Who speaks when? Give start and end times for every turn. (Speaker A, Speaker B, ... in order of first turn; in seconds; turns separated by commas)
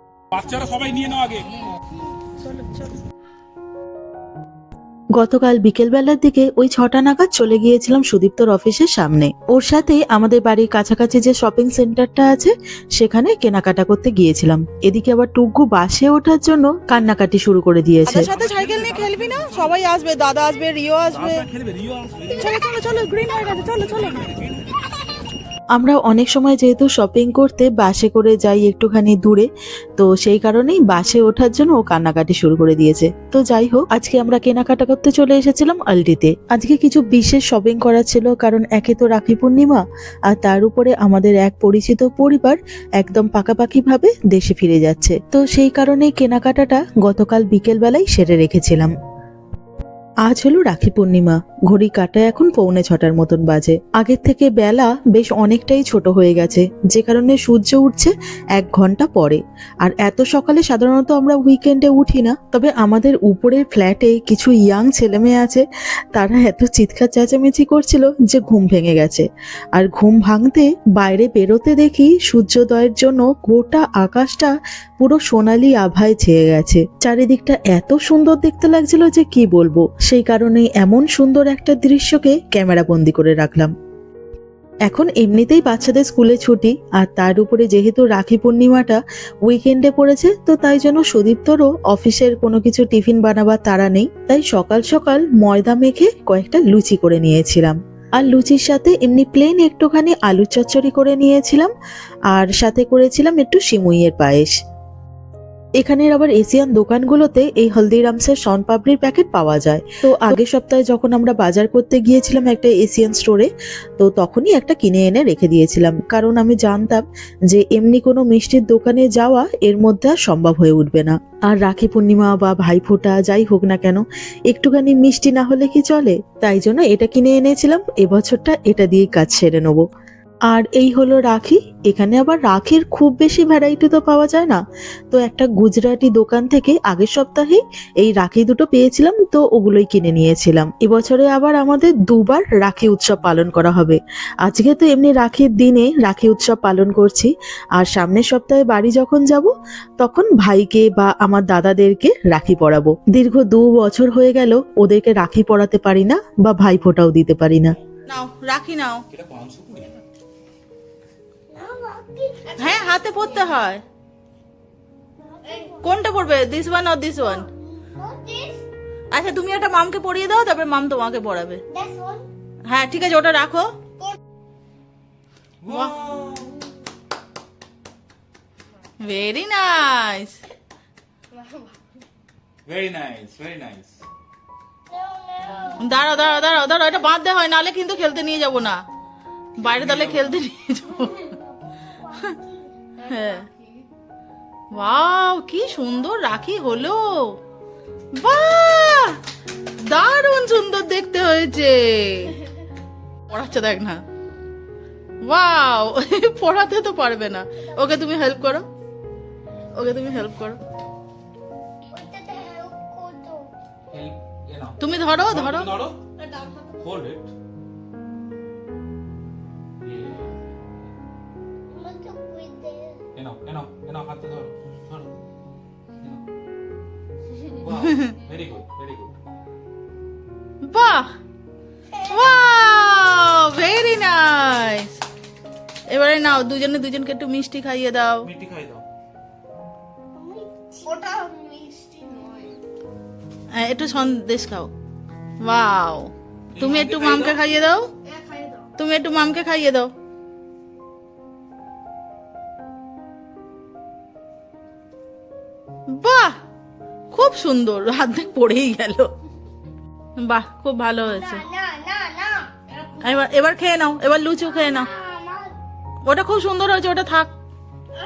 Speaker A: 0.4-1.4, Speaker B: 2.4-2.9, Speaker C: 5.2-18.3, Speaker B: 18.1-21.5, Speaker A: 18.6-19.0, Speaker A: 21.4-22.2, Speaker B: 22.2-24.3, Speaker C: 25.7-48.9, Speaker C: 50.3-83.7, Speaker C: 84.8-101.7, Speaker C: 102.3-104.5, Speaker C: 105.8-129.8, Speaker C: 130.5-134.6, Speaker C: 135.1-157.7, Speaker B: 158.1-159.0, Speaker A: 159.1-160.0, Speaker D: 161.5-163.2, Speaker B: 162.5-163.8, Speaker D: 165.2-165.8, Speaker B: 165.7-167.5, Speaker D: 167.3-168.6, Speaker B: 169.1-171.6, Speaker D: 171.7-172.3, Speaker B: 172.7-173.7, Speaker A: 175.6-176.6, Speaker B: 175.7-175.9, Speaker B: 179.0-180.4, Speaker D: 181.3-181.6, Speaker A: 182.7-184.0, Speaker D: 184.9-185.8, Speaker B: 185.8-188.8, Speaker B: 189.6-191.3, Speaker A: 189.7-190.4, Speaker D: 191.3-192.9, Speaker B: 193.0-193.5, Speaker B: 194.7-197.4, Speaker B: 198.1-199.2, Speaker B: 199.8-202.4, Speaker B: 203.3-204.0, Speaker B: 205.2-208.6, Speaker B: 209.8-210.6, Speaker D: 211.9-213.5, Speaker A: 213.9-216.1, Speaker B: 214.8-215.7, Speaker A: 216.7-217.3, Speaker A: 219.8-220.5, Speaker D: 221.7-223.0, Speaker A: 223.1-225.1, Speaker A: 227.4-229.1, Speaker B: 227.7-228.1, Speaker B: 230.6-231.1, Speaker B: 232.0-235.0, Speaker B: 235.9-238.3, Speaker A: 238.2-238.8, Speaker D: 240.1-242.6, Speaker B: 243.5-244.7, Speaker B: 245.4-247.9, Speaker A: 246.5-247.4, Speaker D: 248.1-248.6, Speaker B: 248.8-249.9, Speaker B: 255.9-256.4, Speaker B: 257.1-259.1, Speaker B: 260.2-261.4, Speaker D: 261.1-262.5, Speaker B: 263.0-264.9, Speaker D: 264.6-265.6, Speaker B: 266.1-267.3